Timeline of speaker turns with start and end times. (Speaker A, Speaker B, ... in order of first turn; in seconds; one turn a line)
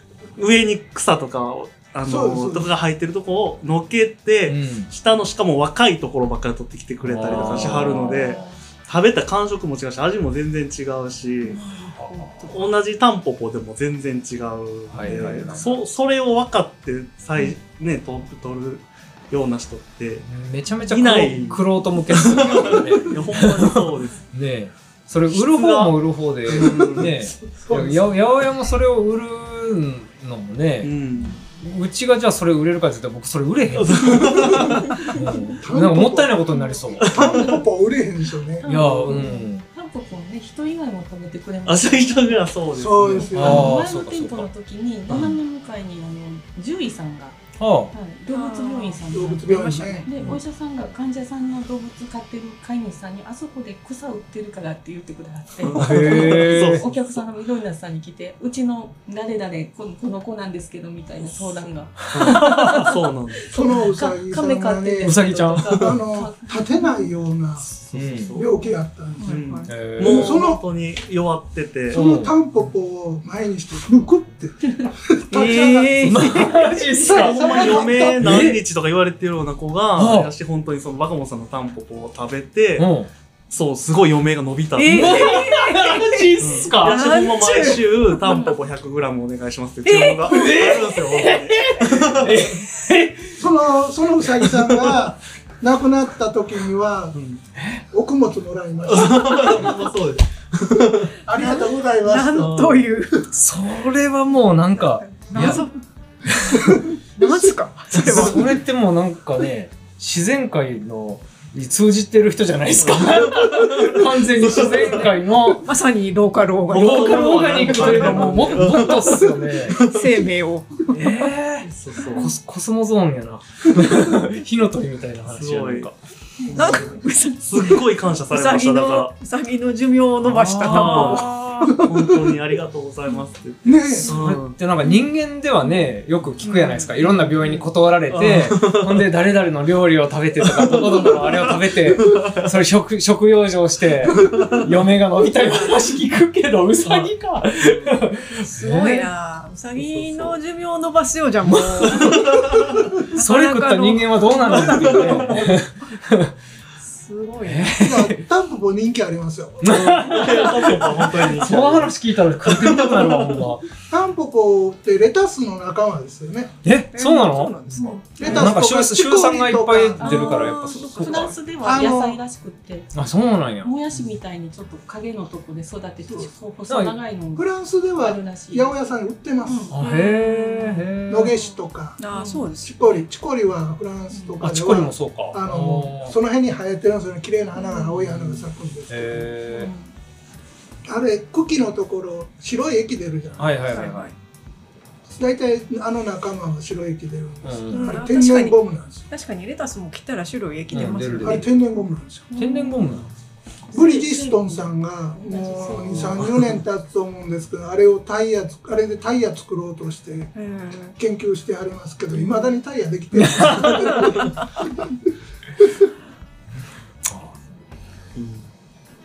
Speaker A: 0.3-11.6
Speaker B: 2.0-2.7
Speaker C: 4.5-4.9
Speaker C: 7.0-8.4
Speaker D: 11.4-12.6
Speaker C: 11.9-12.5
Speaker A: 12.5-20.2
Speaker C: 14.9-15.8
Speaker C: 20.2-30.9
Speaker A: 20.9-24.3
Speaker A: 25.3-27.7
Speaker B: 27.7-28.1
Speaker A: 30.8-31.4
Speaker C: 31.5-37.5
Speaker A: 33.7-35.2
Speaker B: 35.6-38.7
Speaker A: 37.0-37.6
Speaker E: 38.6-47.4
Speaker C: 38.6-39.6
Speaker A: 41.6-43.7
Speaker B: 42.7-43.8
Speaker C: 43.4-44.5
Speaker C: 45.1-45.4
Speaker C: 47.6-47.9
Speaker E: 47.9-62.9
Speaker D: 48.3-50.1
Speaker B: 49.1-50.1
Speaker A: 55.6-56.9
Speaker C: 55.8-56.8
Speaker C: 62.1-62.9
Speaker A: 62.1-63.5
Speaker B: 63.5-67.7
Speaker E: 63.5-67.1
Speaker C: 65.0-65.9
Speaker A: 67.6-68.5
Speaker C: 67.9-68.4
Speaker B: 68.3-70.6
Speaker D: 69.2-69.7
Speaker A: 69.2-72.0
Speaker C: 69.7-70.4
Speaker B: 71.9-78.4
Speaker C: 71.9-72.3
Speaker D: 75.3-77.0
Speaker C: 76.0-78.6
Speaker A: 77.0-82.9
Speaker C: 80.0-80.3
Speaker C: 82.8-83.1
Speaker A: 83.5-85.4
Speaker D: 84.8-88.5
Speaker C: 84.9-87.8
Speaker A: 86.4-92.6
Speaker D: 89.8-90.9
Speaker C: 90.1-93.5
Speaker B: 93.3-97.2
Speaker A: 97.1-97.4
Speaker C: 97.6-97.8
Speaker B: 97.9-99.7
Speaker A: 98.9-101.2
Speaker B: 101.0-102.7
Speaker D: 101.3-103.3
Speaker A: 102.4-102.8
Speaker C: 103.3-105.7
Speaker D: 104.8-105.8
Speaker C: 106.3-106.7
Speaker B: 106.5-106.8
Speaker D: 107.2-108.6
Speaker C: 107.9-115.7
Speaker A: 112.8-115.1
Speaker D: 114.9-121.3
Speaker A: 116.7-120.1
Speaker C: 116.7-119.8
Speaker C: 120.9-125.9
Speaker A: 121.6-122.3
Speaker A: 125.3-125.9
Speaker A: 126.5-129.1
Speaker D: 126.5-131.5
Speaker C: 130.2-131.8
Speaker A: 130.6-134.6
Speaker B: 131.7-132.3
Speaker B: 133.6-134.2
Speaker C: 134.1-149.1
Speaker D: 136.4-137.2
Speaker A: 138.1-139.1
Speaker A: 140.4-142.5
Speaker A: 144.1-144.7
Speaker D: 145.3-145.7
Speaker D: 148.4-155.7
Speaker A: 149.7-150.4
Speaker C: 151.4-156.3
Speaker A: 151.9-152.7
Speaker A: 155.0-155.4
Speaker D: 156.8-157.9
Speaker C: 157.4-158.2
Speaker B: 157.7-160.0
Speaker C: 159.6-163.7
Speaker A: 159.7-163.4
Speaker B: 163.9-166.5
Speaker C: 166.6-171.4
Speaker D: 166.9-168.5
Speaker E: 167.8-168.4
Speaker B: 168.2-170.4
Speaker D: 170.0-171.3
Speaker E: 170.0-172.9
Speaker B: 171.6-172.2
Speaker C: 172.9-173.7
Speaker E: 173.6-179.7
Speaker B: 176.1-176.3
Speaker C: 176.7-177.0
Speaker B: 177.3-179.7
Speaker D: 179.5-180.8
Speaker C: 179.7-181.3
Speaker B: 181.1-182.0
Speaker D: 182.0-183.0
Speaker E: 182.1-182.4
Speaker B: 182.6-189.3
Speaker C: 184.4-186.1
Speaker C: 188.9-189.7
Speaker B: 190.8-193.8
Speaker C: 193.4-194.1
Speaker D: 193.7-194.2
Speaker B: 195.1-199.1
Speaker C: 197.4-198.0
Speaker D: 197.7-201.6
Speaker C: 200.7-201.5
Speaker B: 201.2-202.3
Speaker D: 202.3-202.8
Speaker C: 202.3-203.1
Speaker E: 203.7-206.3
Speaker B: 203.7-210.3
Speaker D: 210.3-210.9
Speaker B: 211.0-214.9
Speaker C: 213.2-214.2
Speaker C: 217.1-217.3
Speaker A: 218.1-218.4